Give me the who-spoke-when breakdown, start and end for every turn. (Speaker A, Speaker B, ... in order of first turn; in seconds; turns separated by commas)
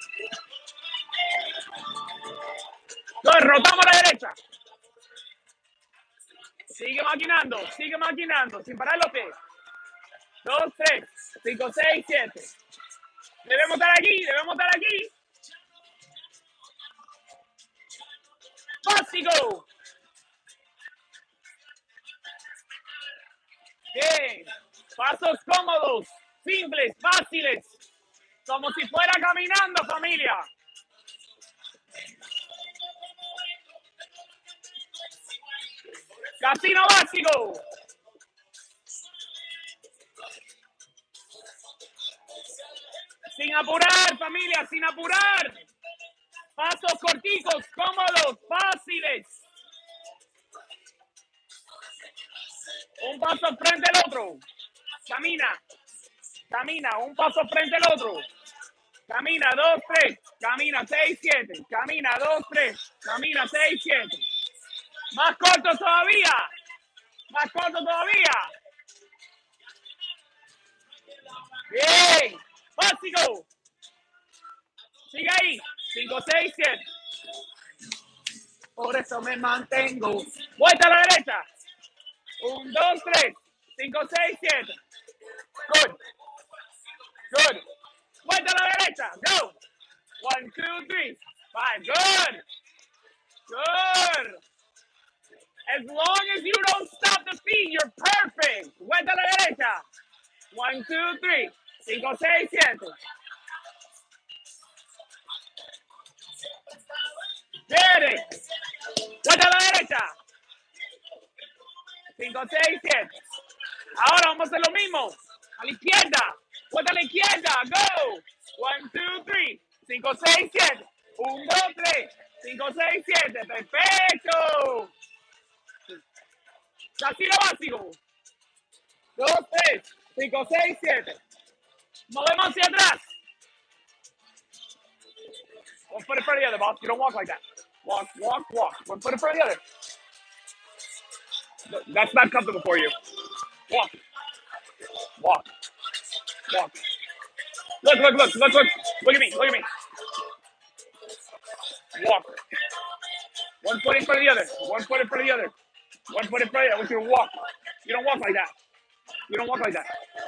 Speaker A: 3.2-4.3, Speaker A: 6.7-9.3, Speaker A: 10.4-12.5, Speaker A: 13.4-15.1, Speaker A: 18.8-19.6, Speaker A: 23.9-27.7, Speaker A: 28.4-30.4, Speaker A: 36.4-37.6, Speaker A: 43.3-45.6, Speaker A: 46.6-49.3, Speaker A: 53.0-54.4, Speaker A: 55.0-55.6, Speaker A: 56.5-58.2, Speaker A: 59.1-64.2, Speaker A: 65.1-66.5, Speaker A: 67.3-68.5, Speaker A: 71.7-73.5, Speaker A: 75.1-76.8, Speaker A: 78.8-81.4, Speaker A: 82.4-84.7, Speaker A: 85.7-86.0, Speaker A: 87.3-87.6, Speaker A: 88.2-89.5, Speaker A: 90.2-92.4, Speaker A: 93.5-94.4, Speaker A: 95.7-99.8, Speaker A: 100.5-102.9, Speaker A: 107.7-108.2, Speaker A: 109.1-110.1, Speaker A: 112.1-113.1, Speaker A: 113.9-124.9, Speaker A: 127.0-128.0, Speaker A: 129.2-131.2, Speaker A: 132.1-133.1, Speaker A: 135.9-139.6, Speaker A: 141.7-142.9, Speaker A: 143.7-143.9, Speaker A: 145.2-145.5, Speaker A: 146.5-146.8, Speaker A: 147.8-149.7, Speaker A: 151.9-152.4, Speaker A: 153.6-155.5, Speaker A: 156.1-158.5, Speaker A: 159.3-159.9